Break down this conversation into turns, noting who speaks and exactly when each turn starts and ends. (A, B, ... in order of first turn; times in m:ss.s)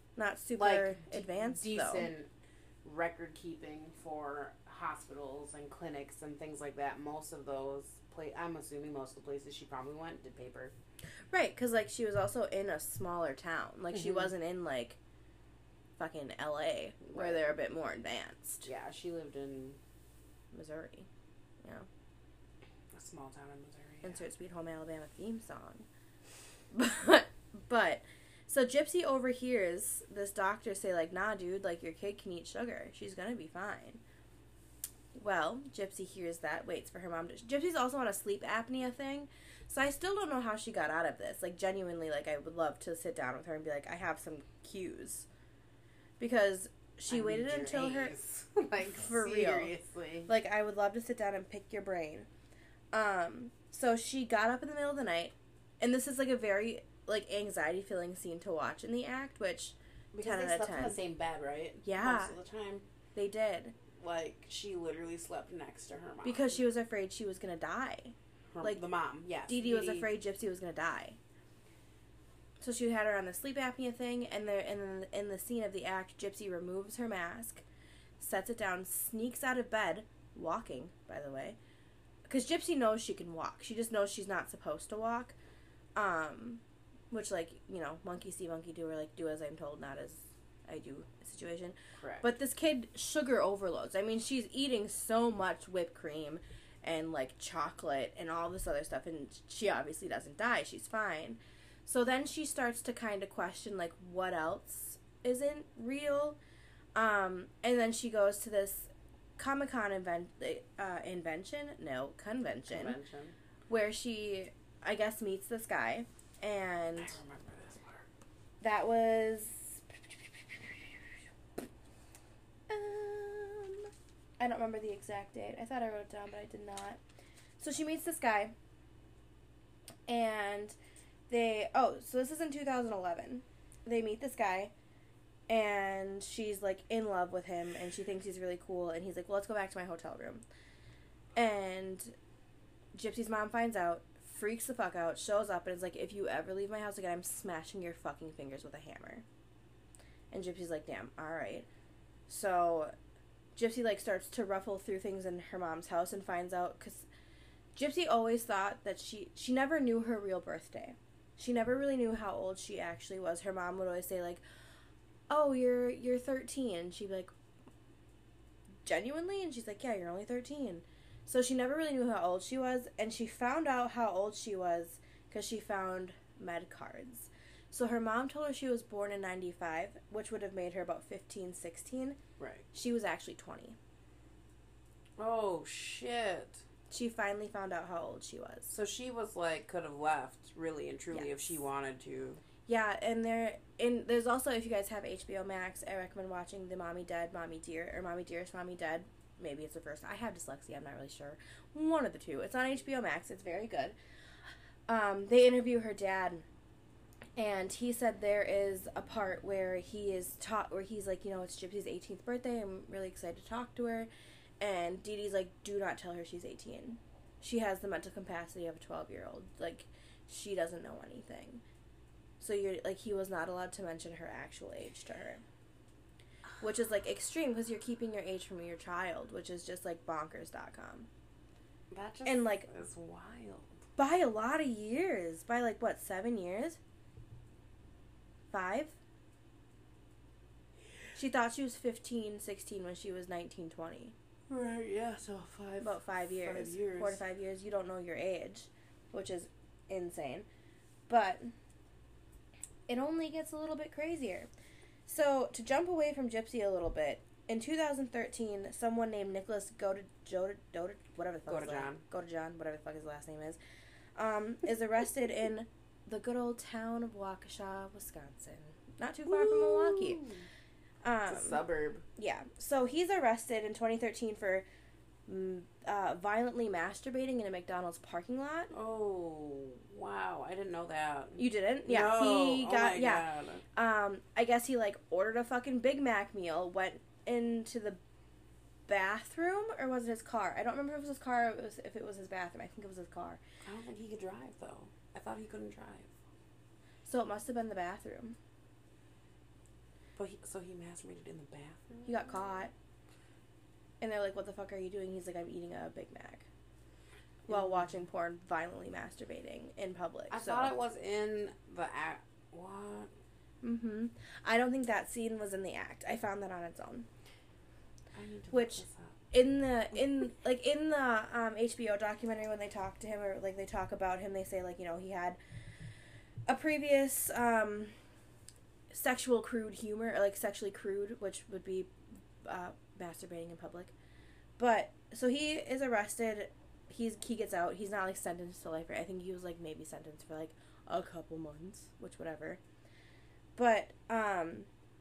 0:00.2-0:02.1 A
0:00.6-0:02.3 B
0:02.8-0:10.7 B
0:11.3-0:15.0 A
0:16.0-0:18.7 A
0:17.0-0:17.5 B
0:18.6-0:19.8 B
0:20.5-0:21.1 A
0:22.9-0:24.2 B
0:24.0-0:25.8 A
0:26.7-0:34.0 A
0:35.1-0:45.3 A
0:46.2-0:48.1 A
0:47.1-0:50.3 B
0:48.8-0:49.7 A
0:50.3-0:52.3 A
0:52.9-1:01.0 A
1:00.1-1:02.8 B
1:01.8-1:02.4 A
1:03.1-1:03.7 A
1:03.9-1:06.6 B
1:06.2-1:08.8 A
1:08.5-1:10.1 B
1:09.5-1:11.2 A
1:12.6-1:17.6 A
1:18.2-1:21.6 A
1:22.3-1:25.3 A
1:26.0-1:46.4 A
1:32.0-1:32.2 B
1:46.9-1:53.0 A
1:52.7-1:53.3 B
1:53.7-1:57.2 A
1:57.0-1:58.1 B
1:58.6-2:00.8 A
2:02.7-2:07.0 A
2:07.6-2:08.5 A
2:10.1-2:10.8 A
2:11.3-2:14.7 A
2:15.5-2:20.4 A
2:21.4-2:22.1 A
2:22.9-2:29.2 A
2:30.3-2:31.6 A
2:32.3-2:32.9 A
2:33.6-2:37.1 A
2:37.7-2:44.4 A
2:45.3-2:47.3 A
2:48.8-3:02.2 A
3:02.4-3:02.6 B
3:02.7-3:03.8 A
3:05.2-3:06.6 B
3:06.9-3:08.7 A
3:08.7-3:12.4 B
3:11.1-3:11.4 A
3:12.7-3:24.0 A
3:24.9-3:26.4 A
3:27.4-3:34.1 A
3:34.6-3:41.6 A
3:42.4-3:45.4 A
3:46.6-3:51.1 A
3:51.9-3:53.8 B
3:52.2-3:52.7 A
3:54.0-3:56.8 A
3:58.5-3:58.9 A
4:01.1-4:04.1 A
4:04.5-4:07.2 B
4:05.8-4:10.4 A
4:11.1-4:11.5 A
4:12.9-4:14.5 A
4:15.1-4:23.6 A
4:21.5-4:22.0 B
4:24.2-4:30.2 A
4:29.3-4:30.4 B
4:31.0-4:31.6 A
4:31.3-4:32.0 B
4:32.2-4:34.6 A
4:35.3-4:38.7 A
4:38.7-4:43.6 B
4:41.4-4:48.0 A
4:48.9-4:53.4 A
4:53.6-4:56.1 B
4:57.0-4:58.4 A
5:00.2-5:02.2 B
5:02.0-5:02.7 A
5:04.0-5:06.4 A
5:07.5-5:07.9 B
5:07.5-5:10.7 A
5:10.3-5:13.1 B
5:13.6-5:17.1 A
5:18.1-5:19.2 B
5:18.5-5:25.4 A
5:26.5-5:27.9 A
5:28.9-5:31.9 A
5:32.4-5:33.9 A
5:34.6-5:42.6 A
5:43.6-5:44.7 A